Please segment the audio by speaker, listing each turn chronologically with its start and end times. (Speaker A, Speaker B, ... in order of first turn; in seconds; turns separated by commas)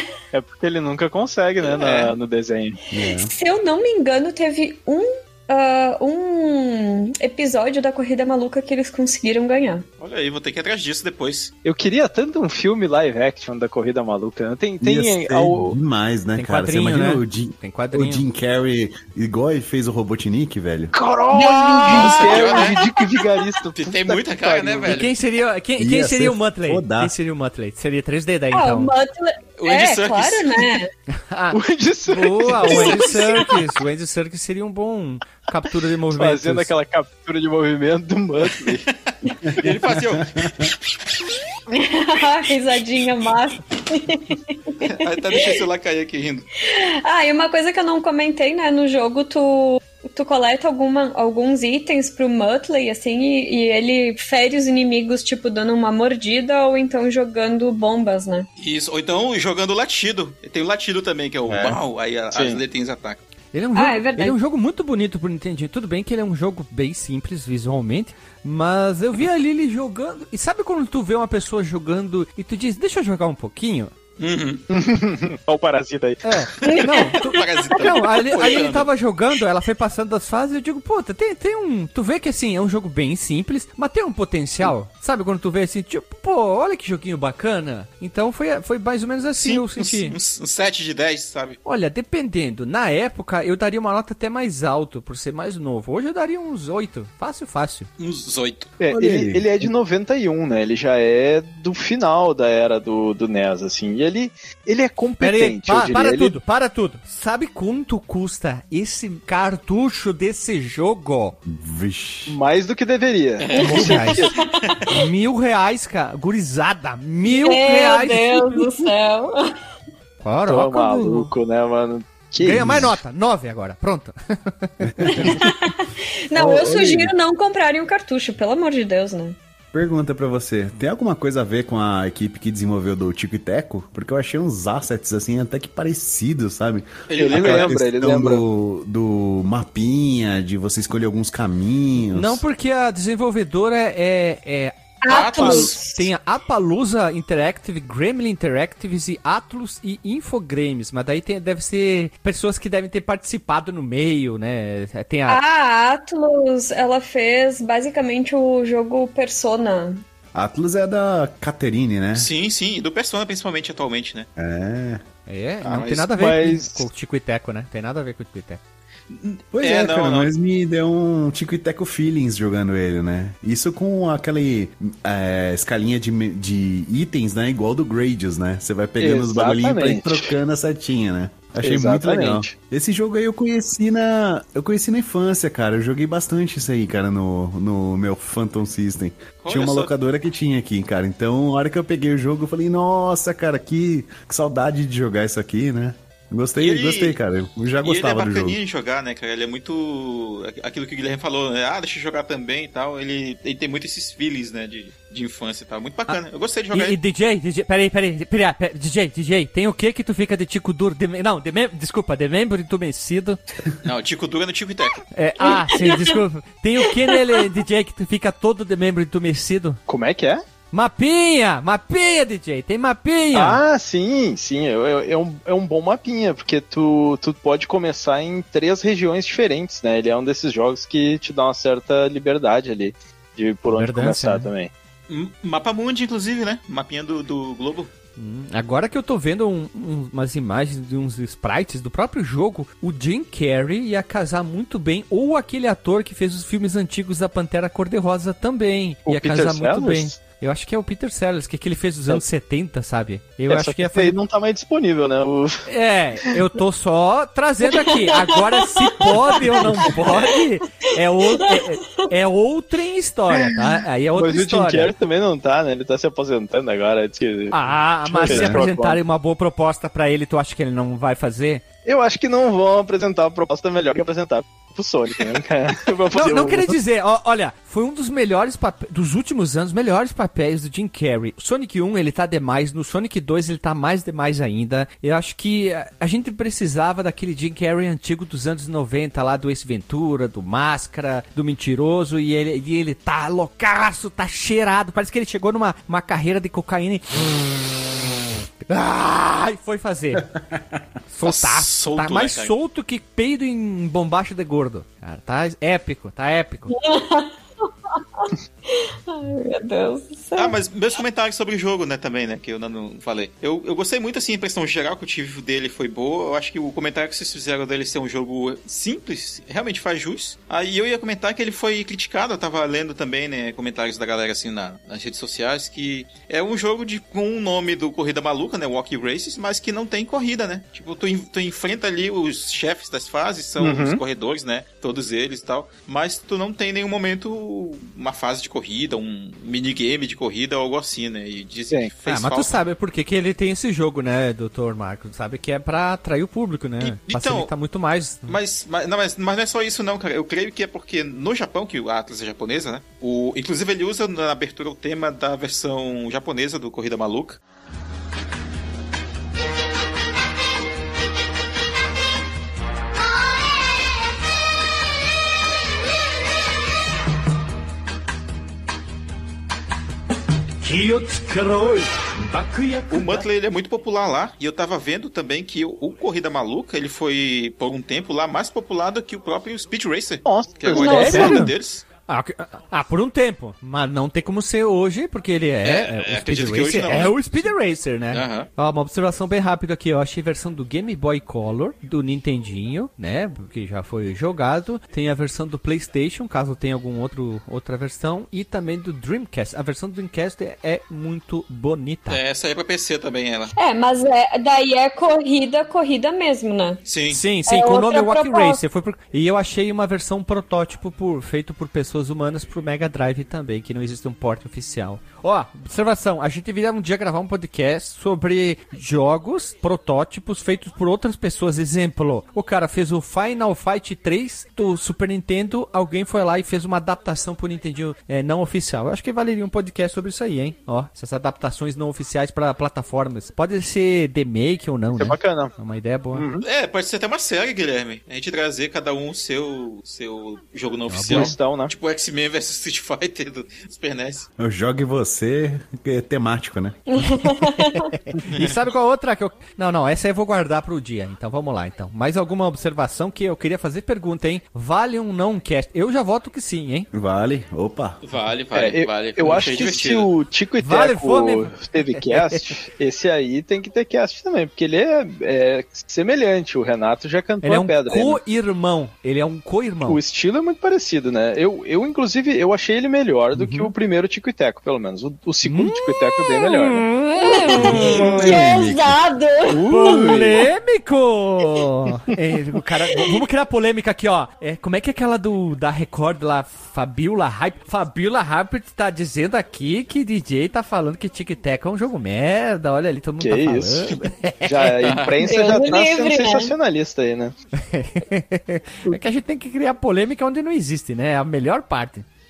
Speaker A: 0.3-2.8, Speaker B: 1.6-2.1, Speaker C: 2.9-3.3, Speaker D: 3.1-9.8, Speaker B: 10.0-11.5, Speaker A: 11.6-15.8, Speaker C: 14.8-20.9, Speaker E: 16.4-18.2, Speaker A: 20.9-25.0, Speaker D: 21.4-23.4, Speaker B: 21.9-22.8, Speaker B: 23.8-25.1, Speaker E: 24.8-28.9, Speaker C: 25.8-27.1, Speaker D: 28.5-30.9, Speaker B: 29.6-30.7, Speaker E: 31.2-36.7, Speaker A: 31.5-33.2, Speaker D: 32.6-33.5, Speaker A: 36.1-38.8, Speaker B: 38.6-40.7, Speaker C: 39.5-40.7, Speaker D: 41.7-45.6, Speaker B: 44.8-46.5, Speaker D: 46.6-58.5, Speaker B: 58.6-63.2, Speaker A: 61.5-61.8, Speaker A: 62.3-62.6, Speaker E: 63.5-73.9, Speaker D: 63.7-64.3, Speaker B: 74.2-74.6, Speaker A: 74.7-76.5, Speaker E: 76.2-90.1, Speaker D: 76.6-78.0, Speaker B: 77.1-78.9, Speaker B: 89.4-91.6, Speaker E: 91.6-97.9, Speaker B: 98.0-98.7, Speaker A: 98.8-106.3, Speaker C: 98.9-99.7, Speaker E: 105.2-111.3, Speaker C: 111.4-112.4, Speaker A: 112.3-114.3, Speaker B: 113.4-114.9, Speaker D: 113.5-115.0, Speaker E: 113.6-114.3, Speaker E: 114.8-118.9, Speaker D: 117.3-119.3, Speaker E: 120.2-121.3, Speaker A: 120.5-123.0, Speaker E: 122.4-125.4, Speaker C: 124.8-125.4, Speaker D: 125.0-129.3, Speaker C: 126.3-127.1, Speaker C: 129.7-142.4, Speaker B: 137.1-137.8, Speaker A: 137.2-138.4, Speaker E: 142.1-144.7, Speaker D: 145.0-146.1, Speaker B: 145.1-145.7, Speaker A: 145.1-145.8, Speaker E: 145.8-155.4, Speaker D: 155.3-160.0, Speaker C: 160.3-162.3, Speaker B: 162.1-164.3, Speaker C: 164.4-165.0, Speaker E: 165.2-168.6, Speaker B: 165.6-166.1, Speaker A: 166.1-166.9, Speaker B: 169.1-170.3, Speaker C: 169.5-198.6, Speaker A: 179.0-180.3, Speaker A: 181.6-182.5, Speaker B: 189.4-189.9, Speaker B: 196.6-197.2, Speaker B: 197.8-207.0, Speaker E: 206.7-213.4, Speaker B: 213.8-215.0, Speaker E: 215.1-219.8, Speaker D: 215.4-216.2, Speaker D: 216.9-217.4, Speaker A: 219.9-220.4, Speaker E: 220.7-223.6, Speaker A: 223.3-234.7, Speaker E: 233.7-234.5, Speaker B: 235.1-237.9, Speaker E: 238.2-254.2, Speaker A: 249.1-250.2, Speaker A: 253.5-255.7, Speaker E: 255.7-264.9, Speaker D: 257.7-259.9, Speaker D: 261.3-262.1, Speaker A: 264.1-269.0, Speaker E: 267.5-271.6, Speaker C: 268.2-268.6, Speaker A: 271.9-276.8, Speaker E: 276.1-297.4, Speaker E: 298.7-300.2, Speaker C: 300.2-300.8, Speaker E: 301.1-306.7, Speaker B: 301.2-302.5, Speaker D: 306.7-310.6, Speaker B: 310.4-342.6, Speaker A: 333.6-334.0, Speaker E: 342.1-348.4, Speaker B: 346.8-347.5, Speaker B: 348.3-357.4, Speaker E: 370.6-373.2, Speaker B: 372.9-381.8, Speaker A: 380.2-381.5, Speaker D: 380.7-381.5, Speaker E: 380.8-381.5, Speaker E: 382.1-402.2, Speaker B: 385.6-387.5, Speaker B: 388.1-388.5, Speaker B: 402.1-403.5, Speaker D: 403.5-406.8, Speaker B: 406.9-407.2, Speaker E: 407.1-436.2, Speaker D: 407.4-408.6, Speaker A: 434.9-435.5, Speaker A: 436.1-436.4, Speaker B: 436.4-444.3, Speaker E: 440.9-441.3, Speaker A: 441.1-441.7, Speaker C: 444.4-446.8, Speaker D: 446.9-447.9, Speaker E: 447.2-456.9, Speaker B: 448.3-448.6, Speaker C: 456.9-458.0, Speaker B: 458.0-460.1, Speaker A: 458.5-468.2, Speaker E: 460.6-462.4, Speaker E: 467.4-470.0, Speaker A: 469.8-476.8, Speaker E: 473.4-473.7, Speaker E: 475.4-477.9, Speaker D: 476.9-480.2, Speaker C: 477.6-479.0, Speaker A: 477.6-478.4, Speaker A: 479.5-480.4, Speaker E: 479.7-494.9, Speaker A: 493.2-497.3, Speaker B: 494.8-495.1, Speaker D: 495.2-496.5, Speaker E: 497.6-502.1